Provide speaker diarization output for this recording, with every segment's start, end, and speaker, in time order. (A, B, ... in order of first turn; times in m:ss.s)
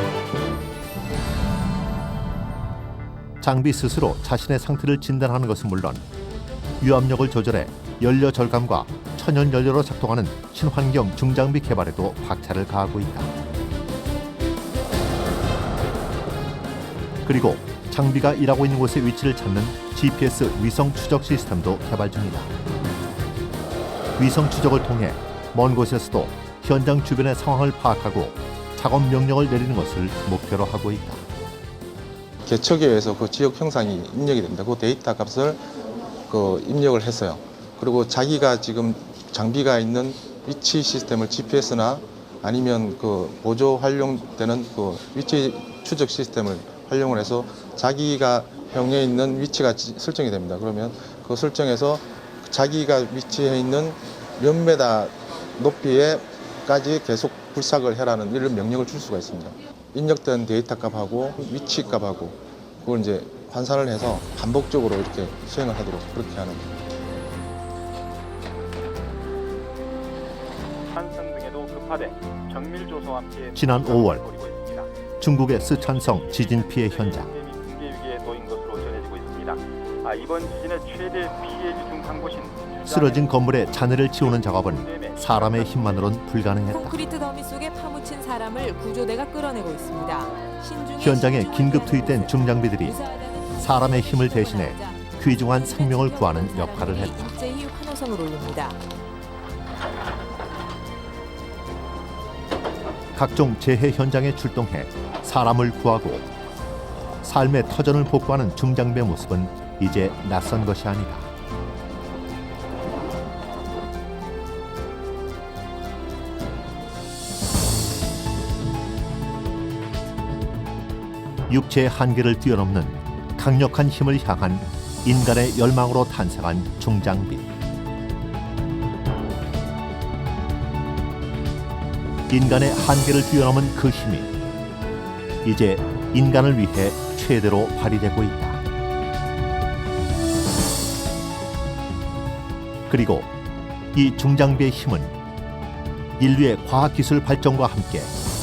0:03.4-0:06.0 A
0:06.8-0:13.3 A
0:17.2-0:22.5 A
0:24.2-0:31.2 A
0:32.4-0:35.6 B
0:36.3-1:06.7 B
1:10.9-1:14.9 C
1:13.5-1:14.2 A
1:15.2-1:17.3 A
1:15.7-1:23.2 C
1:22.9-1:27.0 A
1:24.1-1:26.0 C
1:26.7-1:38.8 D
1:31.0-1:33.0 A
1:33.6-1:37.3 A
1:43.1-1:46.3 A
1:47.2-1:51.3 A
2:01.5-2:07.5 A
2:12.3-2:14.3 A
2:15.4-2:18.6 A
2:22.9-2:23.3 A
2:23.9-2:25.1 A
2:26.2-2:28.1 A